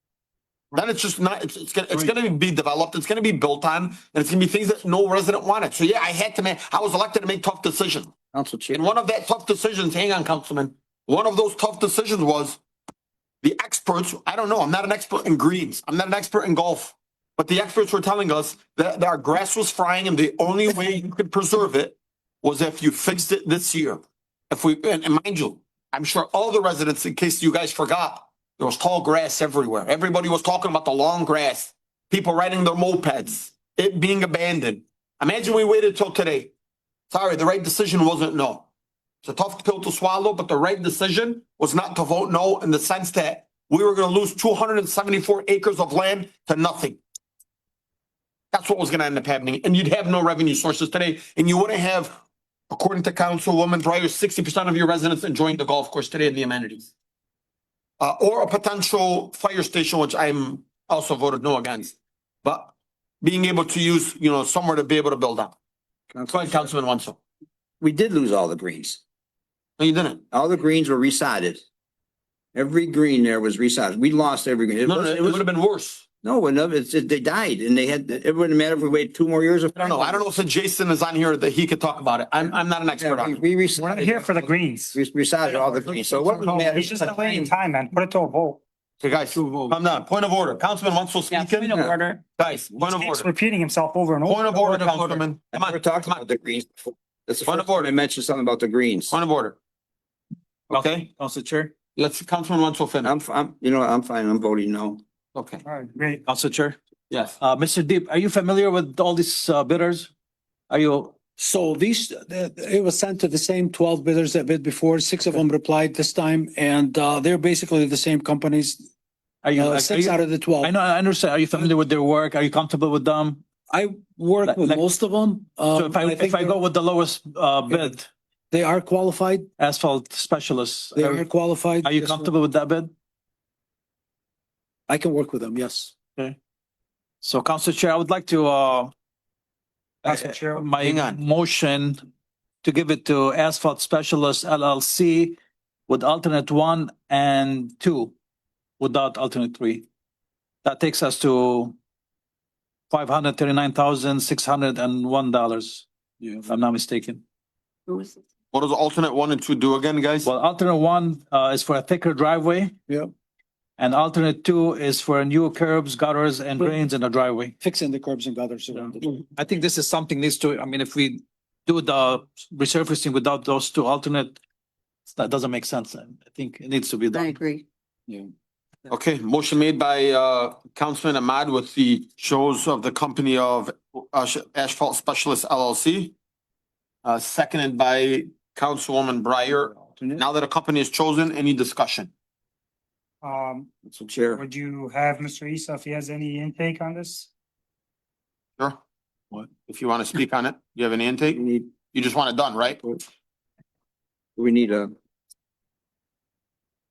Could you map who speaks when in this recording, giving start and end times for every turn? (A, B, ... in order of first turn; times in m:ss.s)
0:00.7-0:08.1 A
0:08.3-0:08.8 B
0:08.7-0:12.6 A
0:13.4-0:36.5 A
0:37.1-0:38.7 A
0:39.2-0:47.0 A
0:48.5-0:52.2 A
0:52.7-0:56.9 A
0:58.0-1:05.5 A
1:06.1-1:06.7 B
1:06.3-1:07.2 A
1:07.8-1:09.0 B
1:09.8-1:10.2 A
1:10.3-1:11.6 B
1:12.6-1:15.4 B
1:14.8-1:16.0 A
1:16.2-1:20.3 B
1:19.8-1:23.4 A
1:22.9-1:24.4 B
1:23.8-1:25.0 C
1:24.9-1:27.5 B
1:25.6-1:28.6 C
1:29.0-1:33.3 A
1:29.3-1:29.8 D
1:32.7-1:34.8 C
1:34.3-1:36.2 A
1:34.6-1:35.2 D
1:35.5-1:39.1 B
1:37.4-1:37.9 A
1:39.1-1:39.6 A
1:40.7-1:41.1 A
1:40.7-1:41.7 D
1:42.0-1:43.1 A
1:43.0-1:45.0 B
1:45.4-1:45.6 A
1:45.6-1:46.2 C
1:46.3-1:46.8 D
1:47.1-1:47.4 A
1:47.4-1:50.1 D
1:50.7-1:51.2 D
1:51.4-1:58.9 E
1:59.4-2:03.4 D
1:59.6-2:00.8 E
2:03.7-2:06.6 E
2:04.4-2:04.8 D
2:05.7-2:08.1 D
2:07.7-2:07.9 E
2:08.5-2:09.5 E
2:09.6-2:11.3 D
2:11.0-2:12.3 E
2:11.8-2:12.9 D
2:14.9-2:15.9 E
2:17.2-2:18.9 D
2:20.0-2:22.0 D
2:20.1-2:20.7 C
2:20.8-2:21.2 A
2:22.6-2:28.1 D
2:28.8-2:29.9 D
2:30.6-2:31.8 D
2:32.9-2:35.9 D
2:36.2-2:36.5 E
2:36.5-2:37.2 D
2:38.5-2:40.3 A
2:40.2-2:42.8 D
2:43.8-2:47.6 D
2:47.6-2:49.2 E
2:49.4-2:54.4 D
2:55.1-2:57.4 D
2:58.9-3:06.1 A
3:07.0-3:12.1 A
3:09.9-3:10.2 B
3:13.2-3:13.7 C
3:13.9-3:14.4 B
3:14.3-3:17.3 C
3:19.7-3:22.8 A
3:21.3-3:21.7 B
3:24.4-3:24.9 B